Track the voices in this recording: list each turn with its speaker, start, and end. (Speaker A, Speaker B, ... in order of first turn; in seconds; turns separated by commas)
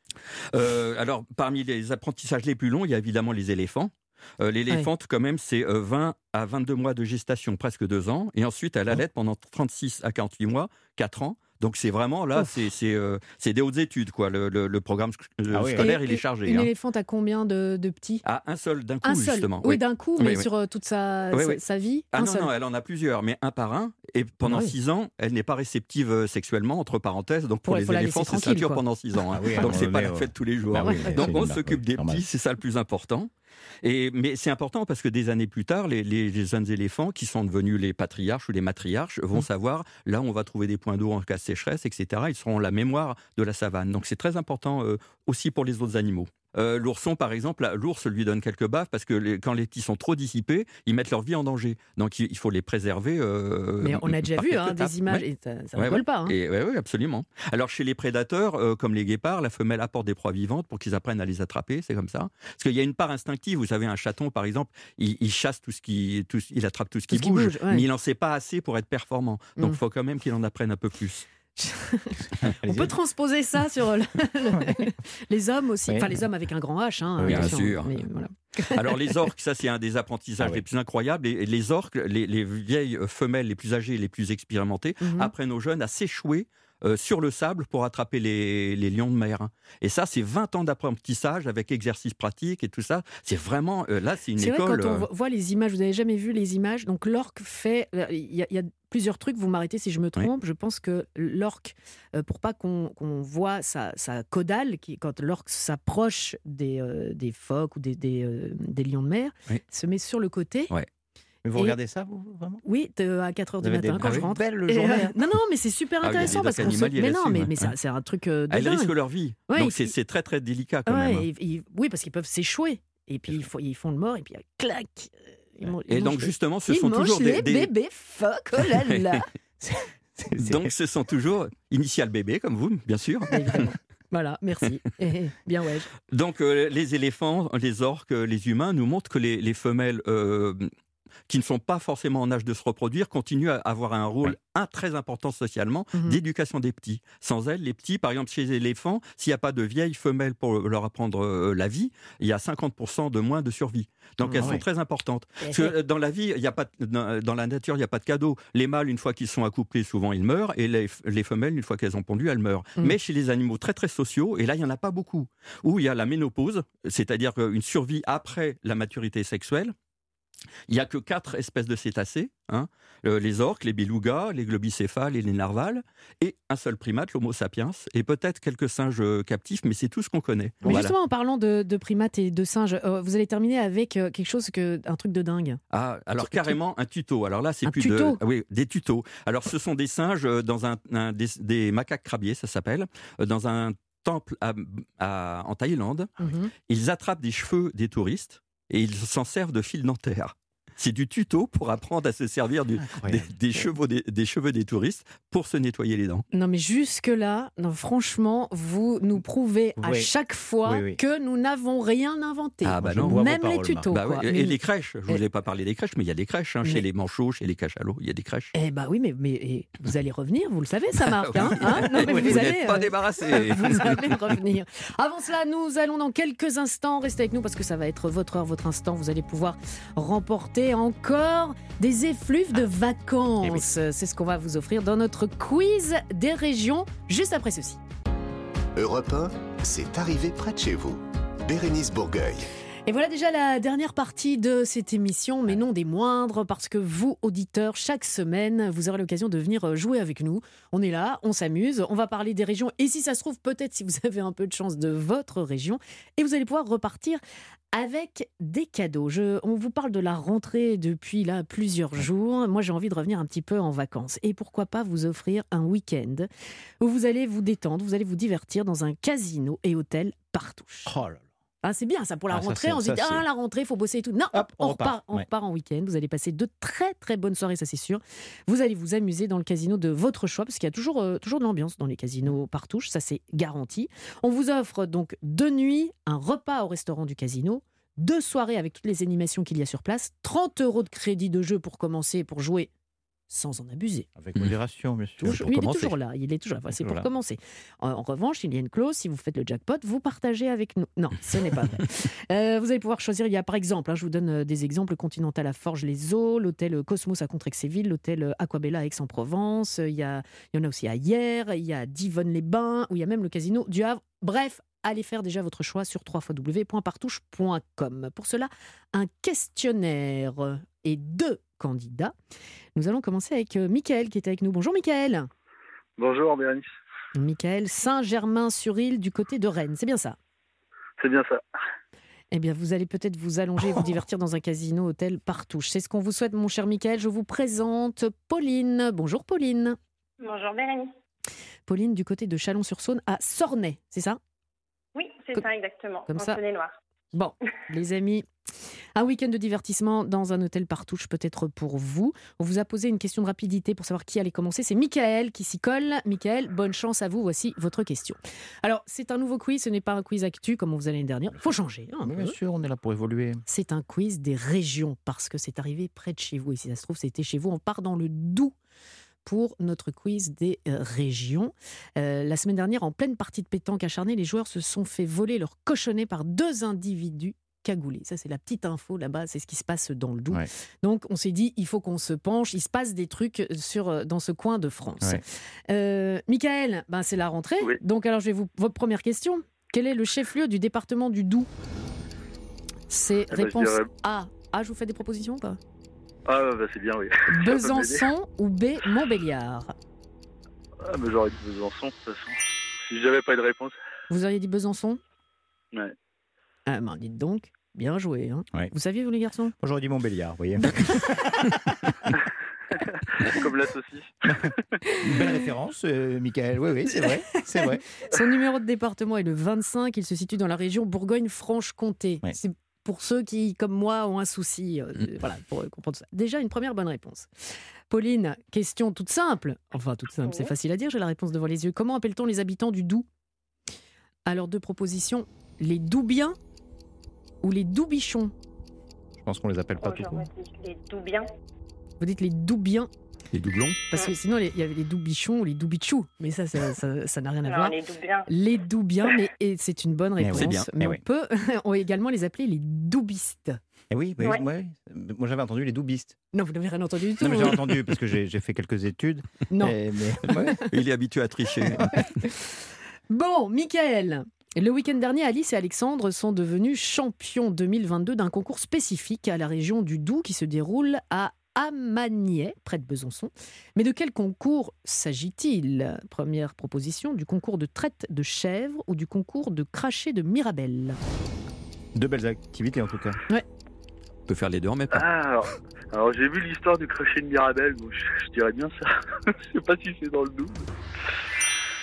Speaker A: 0.5-16.7, Speaker B: 15.5-15.9, Speaker C: 15.8-18.2, Speaker A: 18.2-20.5, Speaker C: 19.0-22.5, Speaker A: 21.3-21.6, Speaker A: 22.1-33.3, Speaker C: 24.4-24.7, Speaker C: 27.7-28.8, Speaker B: 29.3-32.2, Speaker C: 30.8-31.3, Speaker A: 33.8-55.2, Speaker C: 53.8-56.3, Speaker A: 55.8-71.3, Speaker C: 67.1-67.8, Speaker C: 71.6-78.9, Speaker B: 72.4-73.0, Speaker B: 75.9-76.2, Speaker B: 77.2-77.7, Speaker A: 77.3-78.0, Speaker A: 78.7-95.1, Speaker C: 85.0-85.3, Speaker C: 94.4-110.7, Speaker B: 111.4-112.6, Speaker C: 112.6-118.9, Speaker B: 113.6-115.2, Speaker A: 116.0-117.7, Speaker A: 118.5-121.3, Speaker C: 119.5-119.9, Speaker C: 120.9-129.3, Speaker A: 125.9-127.7, Speaker A: 128.9-129.1, Speaker B: 129.6-130.7, Speaker A: 130.4-133.4, Speaker C: 133.3-135.9, Speaker A: 136.1-140.7, Speaker A: 141.3-169.8, Speaker C: 145.9-146.2, Speaker C: 154.3-154.6, Speaker B: 154.3-154.7, Speaker C: 155.4-155.7, Speaker A: 170.7-180.9, Speaker C: 180.7-185.6, Speaker A: 185.7-206.2, Speaker C: 186.2-186.6, Speaker C: 187.7-188.2, Speaker C: 196.2-196.5, Speaker B: 202.8-203.3, Speaker C: 206.3-215.2, Speaker B: 209.8-210.1, Speaker B: 210.7-211.0, Speaker A: 212.6-213.2, Speaker B: 212.8-214.0, Speaker A: 213.9-218.5, Speaker C: 218.5-237.8, Speaker A: 221.0-224.3, Speaker B: 221.8-222.4, Speaker D: 238.8-242.5, Speaker C: 242.9-257.2, Speaker C: 257.7-266.3, Speaker C: 266.8-270.9, Speaker B: 270.9-271.2, Speaker C: 271.6-292.7, Speaker B: 272.3-273.3, Speaker B: 274.3-275.3, Speaker C: 293.3-294.1, Speaker B: 294.2-295.5, Speaker C: 295.2-322.1, Speaker A: 295.2-295.9, Speaker B: 296.7-297.1, Speaker C: 322.8-325.3, Speaker E: 326.0-326.7, Speaker C: 327.1-330.2, Speaker E: 331.0-331.4, Speaker C: 332.3-339.8, Speaker F: 340.2-340.9, Speaker C: 341.7-344.2, Speaker F: 344.9-346.8, Speaker C: 346.1-346.4, Speaker C: 347.1-348.3, Speaker C: 349.0-362.4, Speaker B: 362.0-363.4, Speaker C: 363.5-368.6, Speaker C: 369.2-391.5, Speaker C: 392.9-395.6, Speaker E: 393.3-393.9, Speaker E: 396.3-398.1, Speaker C: 397.3-399.7, Speaker E: 400.9-403.8, Speaker C: 404.1-405.0, Speaker C: 406.7-409.5, Speaker B: 409.6-412.2, Speaker C: 410.6-411.4, Speaker E: 413.2-414.5, Speaker B: 415.0-417.8, Speaker C: 417.6-427.3, Speaker C: 427.9-433.1, Speaker F: 430.2-430.5, Speaker C: 434.3-436.4, Speaker C: 437.4-438.3, Speaker B: 439.2-440.3, Speaker F: 439.8-441.3, Speaker C: 442.0-442.9, Speaker A: 443.3-443.8, Speaker C: 443.9-447.8, Speaker F: 447.5-448.3, Speaker C: 448.3-453.6, Speaker B: 450.2-451.0, Speaker A: 450.4-450.7, Speaker B: 453.9-456.2, Speaker C: 456.3-457.8, Speaker B: 457.2-460.6, Speaker C: 459.5-460.6, Speaker A: 460.7-462.0, Speaker B: 461.8-462.1, Speaker C: 461.9-462.6, Speaker C: 463.1-481.0, Speaker B: 481.9-483.2, Speaker A: 484.3-485.1, Speaker E: 484.9-490.7